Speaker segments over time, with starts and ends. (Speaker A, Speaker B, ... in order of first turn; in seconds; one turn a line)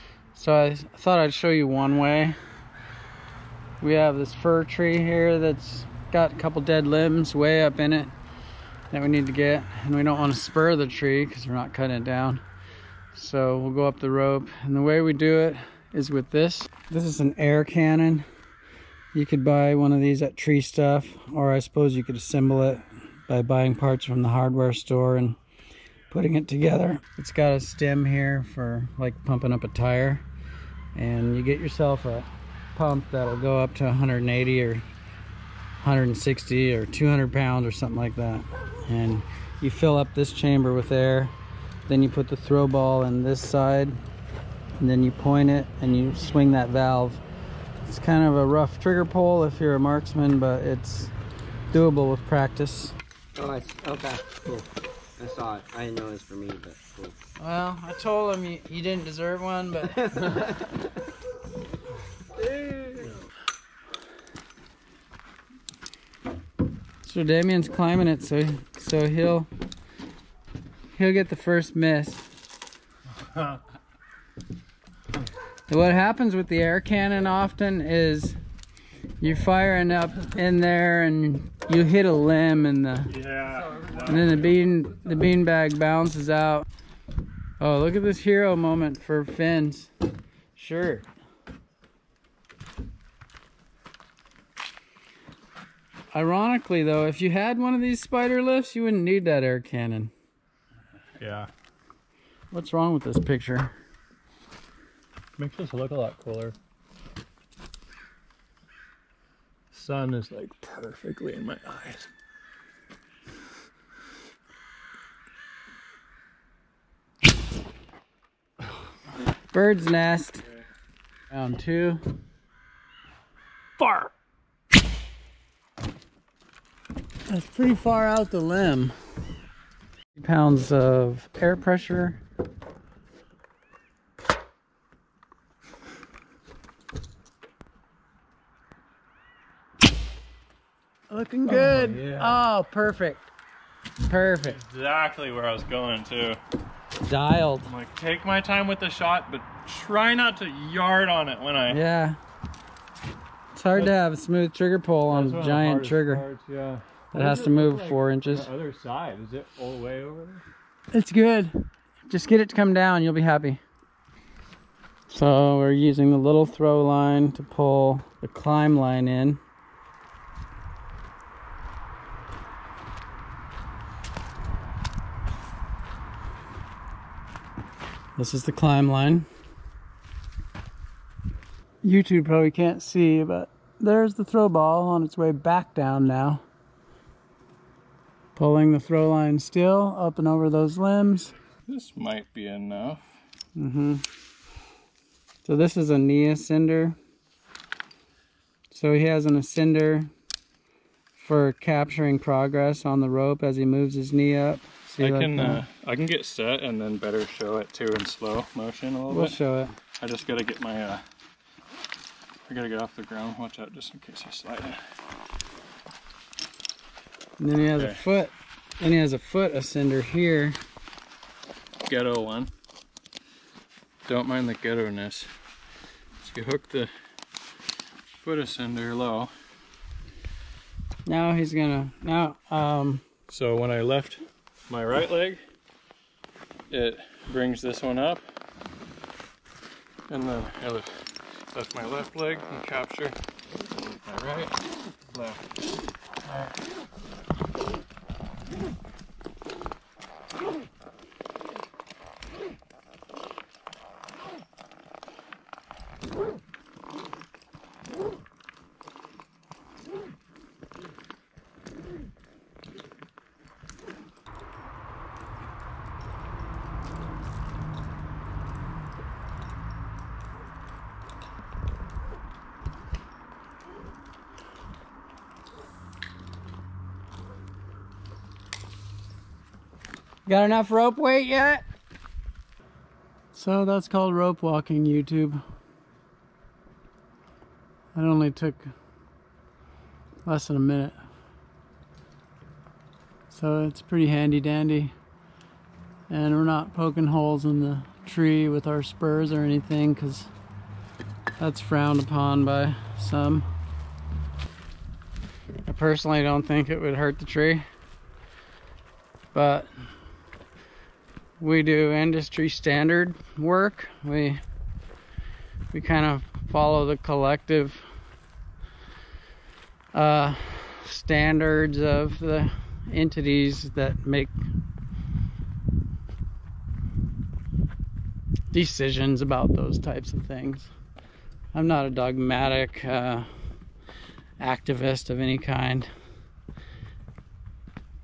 Speaker A: 0.3-2.4
Speaker A: 3.8-8.1
Speaker A: 8.9-12.4
Speaker A: 13.1-18.3
Speaker A: 19.1-25.4
Speaker A: 26.1-30.2
Speaker A: 30.9-34.9
Speaker A: 35.8-41.3
Speaker A: 41.9-44.0
Speaker A: 44.8-47.2
Speaker A: 47.9-51.1
Speaker A: 51.7-53.0
Speaker B: 53.4-57.1
Speaker A: 57.4-60.1
Speaker B: 59.8-60.8
Speaker A: 67.0-69.5
Speaker A: 70.9-72.2
Speaker A: 75.7-78.4
Speaker A: 79.2-83.1
Speaker C: 83.1-84.5
Speaker A: 84.0-86.7
Speaker A: 87.6-89.9
Speaker A: 90.6-91.1
Speaker A: 96.1-100.1
Speaker C: 101.2-101.5
Speaker A: 102.5-103.7
Speaker C: 105.4-106.6
Speaker C: 109.7-112.1
Speaker A: 119.5-120.5
Speaker A: 121.3-122.0
Speaker A: 123.8-124.1
Speaker A: 127.3-128.9
Speaker A: 130.2-132.2
Speaker A: 141.1-143.3
Speaker C: 141.5-142.4
Speaker A: 144.0-144.6
Speaker C: 144.4-146.4
Speaker A: 147.0-147.7
Speaker C: 147.7-151.8
Speaker A: 151.7-152.2
Speaker A: 153.6-156.2
Speaker C: 155.1-160.4
Speaker A: 157.1-158.5
Speaker A: 160.9-161.6
Speaker A: 162.1-163.6
Speaker A: 165.1-169.4
Speaker A: 178.2-179.3
Speaker A: 181.8-186.4
Speaker A: 188.4-191.3
Speaker C: 191.7-193.1
Speaker A: 193.6-194.1
Speaker A: 195.4-197.0
Speaker A: 198.7-200.1
Speaker A: 201.2-205.6
Speaker C: 205.0-209.4
Speaker A: 209.1-209.8
Speaker C: 210.0-211.0
Speaker C: 212.5-214.8
Speaker A: 217.4-220.6
Speaker C: 217.8-218.0
Speaker C: 221.9-222.5
Speaker C: 224.1-225.3
Speaker C: 226.2-226.9
Speaker C: 228.2-229.3
Speaker A: 231.1-233.0
Speaker C: 233.3-235.4
Speaker C: 236.7-238.2
Speaker C: 240.1-240.9
Speaker C: 241.5-243.2
Speaker C: 243.8-244.6
Speaker C: 245.1-245.4
Speaker A: 280.3-281.6
Speaker A: 283.3-285.4
Speaker A: 287.9-288.7
Speaker A: 290.2-291.0
Speaker A: 293.3-294.9
Speaker A: 296.1-300.3
Speaker A: 301.4-303.5
Speaker A: 305.6-307.6
Speaker A: 309.3-309.7
Speaker A: 311.4-314.4
Speaker A: 315.7-317.8
Speaker A: 319.9-324.3
Speaker A: 328.5-330.7
Speaker A: 331.5-333.3
Speaker A: 334.4-335.9